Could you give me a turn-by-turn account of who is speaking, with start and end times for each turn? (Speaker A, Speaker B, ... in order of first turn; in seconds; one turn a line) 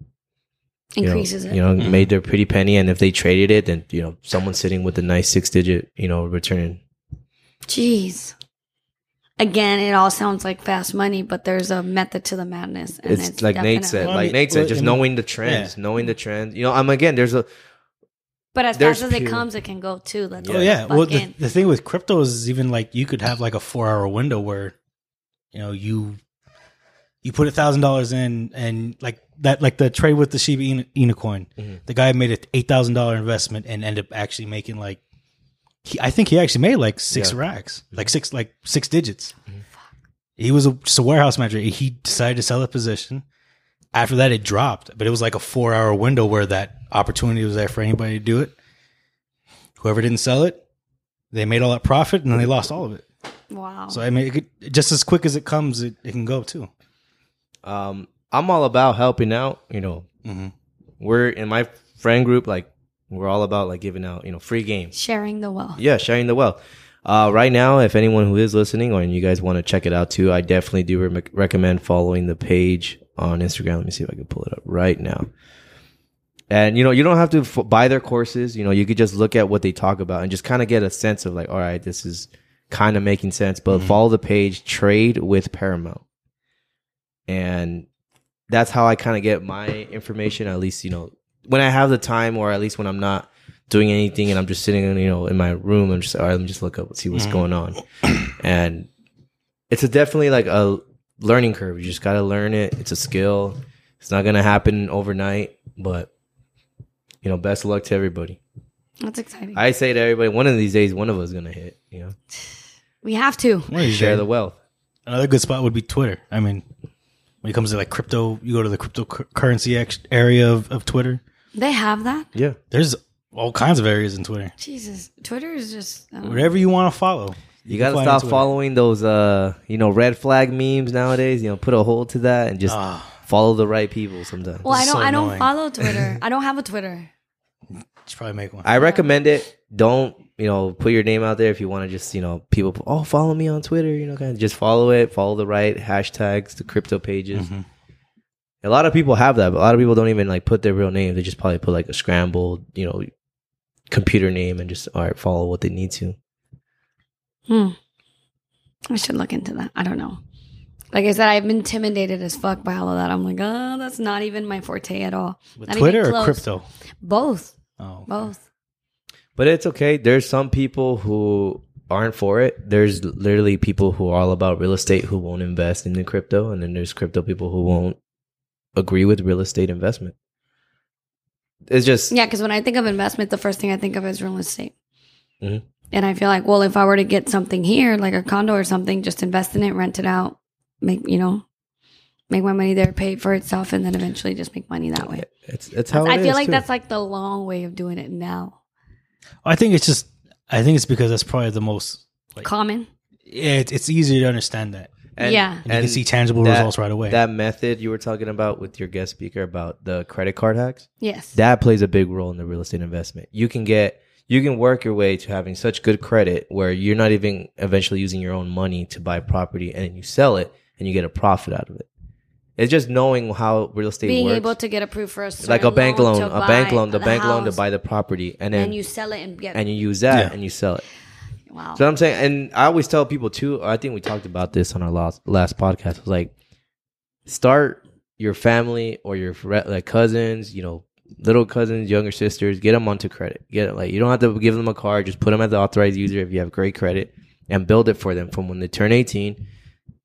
Speaker A: 0.9-1.6
Speaker B: 1.0-6.8
Speaker C: 1.8-2.1
Speaker A: 7.7-8.3
Speaker A: 9.4-14.1
Speaker B: 13.0-17.5
Speaker C: 14.0-15.7
Speaker A: 18.5-21.3
Speaker B: 18.7-19.4
Speaker B: 20.4-20.7
Speaker C: 20.5-24.7
Speaker C: 25.5-26.2
Speaker C: 27.2-35.0
Speaker C: 35.8-39.3
Speaker C: 40.4-43.2
Speaker C: 43.9-48.5
Speaker C: 49.8-50.6
Speaker C: 51.3-53.0
Speaker A: 53.5-54.0
Speaker C: 53.9-56.7
Speaker B: 57.6-60.1
Speaker C: 60.2-60.5
Speaker B: 61.0-64.9
Speaker A: 64.9-65.8
Speaker B: 65.8-75.3
Speaker B: 76.5-86.0
Speaker B: 87.3-87.9
Speaker B: 88.5-98.9
Speaker C: 97.1-97.4
Speaker B: 99.7-106.1
Speaker B: 107.2-108.4
Speaker A: 109.0-109.6
Speaker B: 109.5-112.1
Speaker A: 113.0-113.7
Speaker C: 113.7-114.2
Speaker B: 113.8-114.6
Speaker C: 115.1-116.6
Speaker C: 117.4-121.2
Speaker A: 121.5-122.3
Speaker C: 122.7-124.5
Speaker A: 124.6-126.5
Speaker C: 126.2-128.5
Speaker B: 127.7-134.7
Speaker C: 132.7-133.2
Speaker C: 134.6-136.2
Speaker A: 134.6-137.1
Speaker C: 138.1-138.7
Speaker B: 138.6-147.5
Speaker A: 138.8-139.1
Speaker C: 147.3-147.6
Speaker B: 148.6-153.1
Speaker B: 153.9-156.2
Speaker A: 157.5-157.8
Speaker A: 158.9-160.2
Speaker A: 160.9-166.4
Speaker C: 165.6-166.6
Speaker A: 167.0-167.5
Speaker C: 167.8-168.2
Speaker A: 168.1-168.4
Speaker B: 169.3-178.0
Speaker B: 178.8-180.1
Speaker B: 181.7-182.1
Speaker A: 182.1-184.7
Speaker A: 185.9-191.4
Speaker A: 192.3-195.2
Speaker B: 195.0-196.6
Speaker A: 195.9-198.6
Speaker C: 199.4-202.4
Speaker A: 202.4-202.9
Speaker C: 203.3-205.0
Speaker B: 205.1-221.9
Speaker A: 205.2-205.6
Speaker C: 205.6-207.2
Speaker A: 211.0-211.4
Speaker B: 222.6-224.5
Speaker A: 224.0-227.6
Speaker B: 225.4-228.8
Speaker A: 228.5-229.6
Speaker B: 229.5-230.8
Speaker A: 231.5-231.8
Speaker B: 231.8-236.3
Speaker B: 237.3-249.4